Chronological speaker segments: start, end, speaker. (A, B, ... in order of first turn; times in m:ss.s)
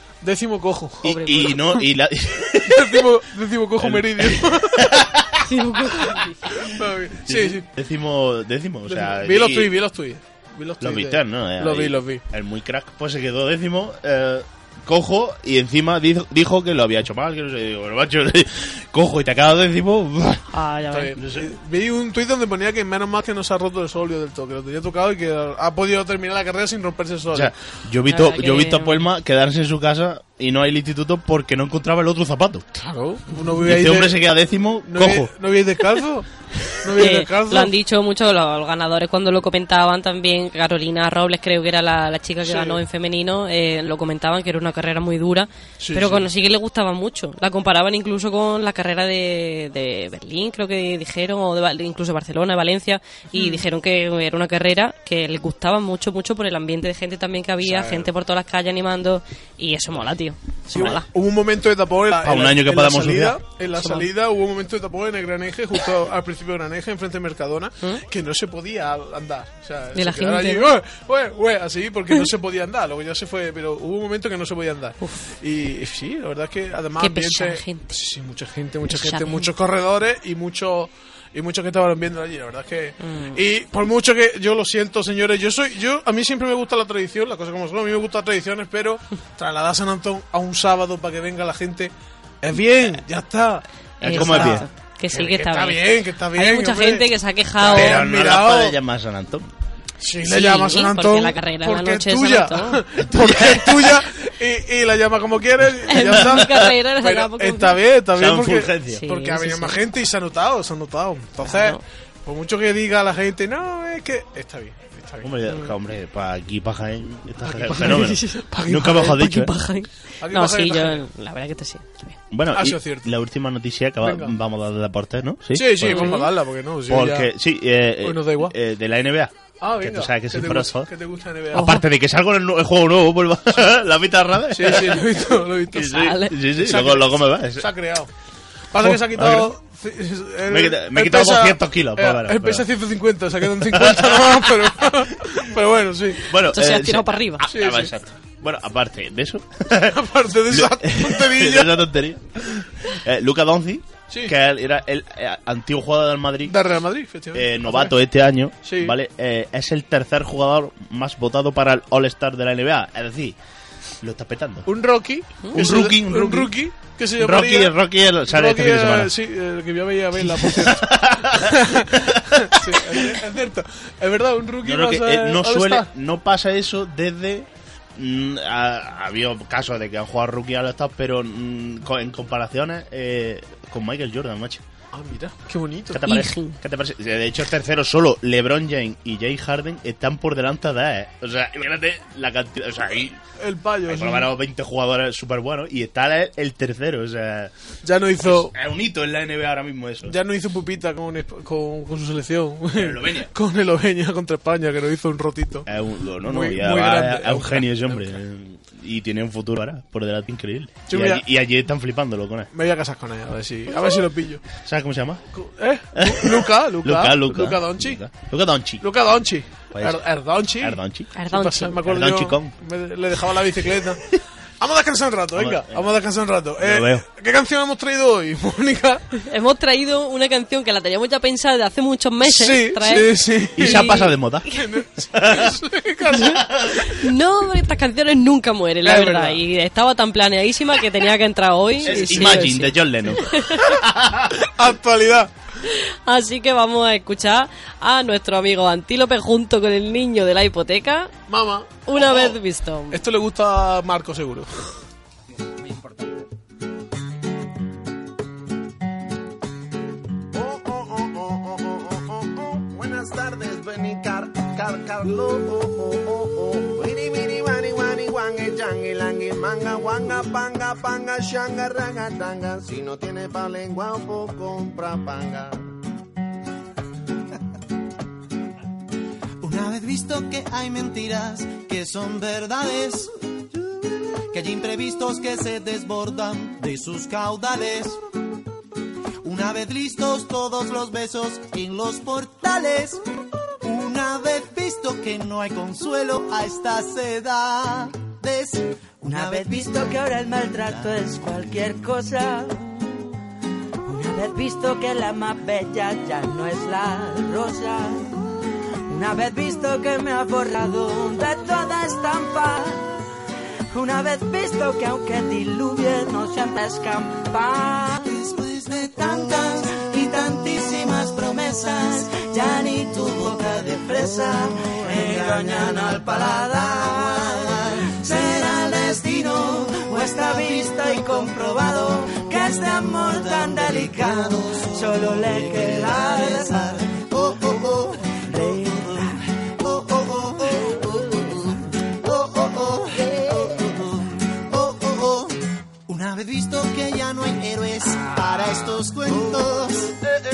0:00.2-0:01.7 A
0:01.0-0:03.1 B
0:01.0-0:01.6 C
0:02.6-0:05.0 A
0:03.8-0:05.4 B
0:05.4-0:06.6 C
0:06.6-0:07.7 A
0:07.3-0:09.7 B
0:08.9-0:12.2 A
0:10.8-0:20.5 B
0:20.5-0:21.2 C
0:20.9-0:27.5 A
0:21.2-0:21.5 B
0:27.3-0:32.6 B
0:28.1-0:29.0 C
0:32.7-0:34.2 A
0:33.6-0:35.3 B
0:34.9-0:37.7 A
0:37.0-1:01.1 C
0:42.4-0:42.8 A
0:45.8-0:46.3 A
0:53.3-0:53.6 A
0:57.6-0:58.1 A
1:00.7-1:37.1 A
1:02.2-1:03.4 B
1:03.8-1:04.1 C
1:10.0-1:10.7 C
1:15.0-1:15.3 C
1:17.0-1:17.9 C
1:18.9-1:19.5 C
1:23.0-1:23.4 C
1:34.0-1:34.7 B
1:34.0-1:35.8 C
1:36.4-1:38.0 C
1:37.6-1:38.8 A
1:37.6-1:39.5 B
1:40.0-1:55.3 A
1:40.2-1:42.8 C
1:43.0-1:44.0 B
1:45.9-1:47.8 C
1:46.0-1:46.6 B
1:48.1-1:49.0 B
1:48.9-1:49.8 C
1:51.4-1:51.8 C
1:55.2-1:59.5 B
1:55.5-1:55.7 C
1:57.4-1:59.3 A
1:57.8-2:02.2 C
2:00.2-2:01.0 A
2:02.3-2:06.2 B
2:02.5-2:03.1 A
2:04.0-2:04.4 A
2:05.5-2:07.3 A
2:05.8-2:06.3 C
2:06.9-2:10.9 B
2:08.0-2:08.5 A
2:09.6-2:11.8 A
2:11.5-2:17.7 B
2:11.5-2:11.8 C
2:14.5-2:18.1 A
2:15.8-2:16.4 C
2:18.7-2:26.3 A
2:18.8-2:19.5 B
2:20.5-2:22.7 B
2:23.6-2:24.9 B
2:26.3-2:36.6 B
2:26.5-2:27.5 C
2:27.5-2:27.9 A
2:29.9-2:31.9 A
2:34.1-2:34.4 A
2:36.5-2:37.9 A
2:37.3-2:43.4 B
2:38.6-2:39.0 A
2:44.0-2:44.7 B
2:44.7-2:47.8 A
2:45.5-2:46.5 B
2:47.2-2:49.1 B
2:48.3-2:55.9 A
2:50.2-2:53.1 B
2:54.6-3:04.6 B
3:04.9-3:06.1 A
3:05.9-3:13.2 B
3:06.0-3:06.6 C
3:13.4-3:14.3 A
3:13.9-3:17.5 B
3:17.8-3:18.5 A
3:18.2-3:20.2 B
3:20.1-3:25.7 A
3:22.7-3:23.3 B
3:25.7-3:32.5 B
3:26.2-3:28.1 A
3:30.9-3:31.2 A
3:32.5-3:34.5 A
3:34.6-3:35.2 B
3:35.4-3:38.0 A
3:36.0-3:38.8 B
3:38.8-3:49.1 A
3:39.7-3:40.0 B
3:40.6-3:41.1 B
3:41.2-3:41.8 C
3:41.8-3:42.5 B
3:45.4-3:45.9 B
3:46.6-3:47.0 B
3:49.2-3:54.6 C
3:52.2-3:56.5 A
3:53.6-3:54.5 B
3:55.1-3:55.5 B
3:56.1-4:03.8 C
3:56.2-3:56.9 B
3:58.8-3:59.4 A
4:01.8-4:04.4 B
4:04.4-4:05.3 A
4:05.7-4:11.1 C
4:11.3-4:12.3 A
4:11.9-4:13.0 C
4:12.9-4:14.7 A
4:20.3-4:35.6 D
4:39.4-4:43.1 E
4:44.3-4:48.0 E
4:49.2-4:53.0 E
4:53.6-5:01.4 E
4:59.1-5:02.6 F
5:03.8-5:08.1 F
5:08.9-5:13.0 F
5:13.7-5:18.2 F
5:17.9-5:31.6 E
5:18.9-5:37.0 F
5:32.2-5:50.0 E
5:38.1-5:39.2 F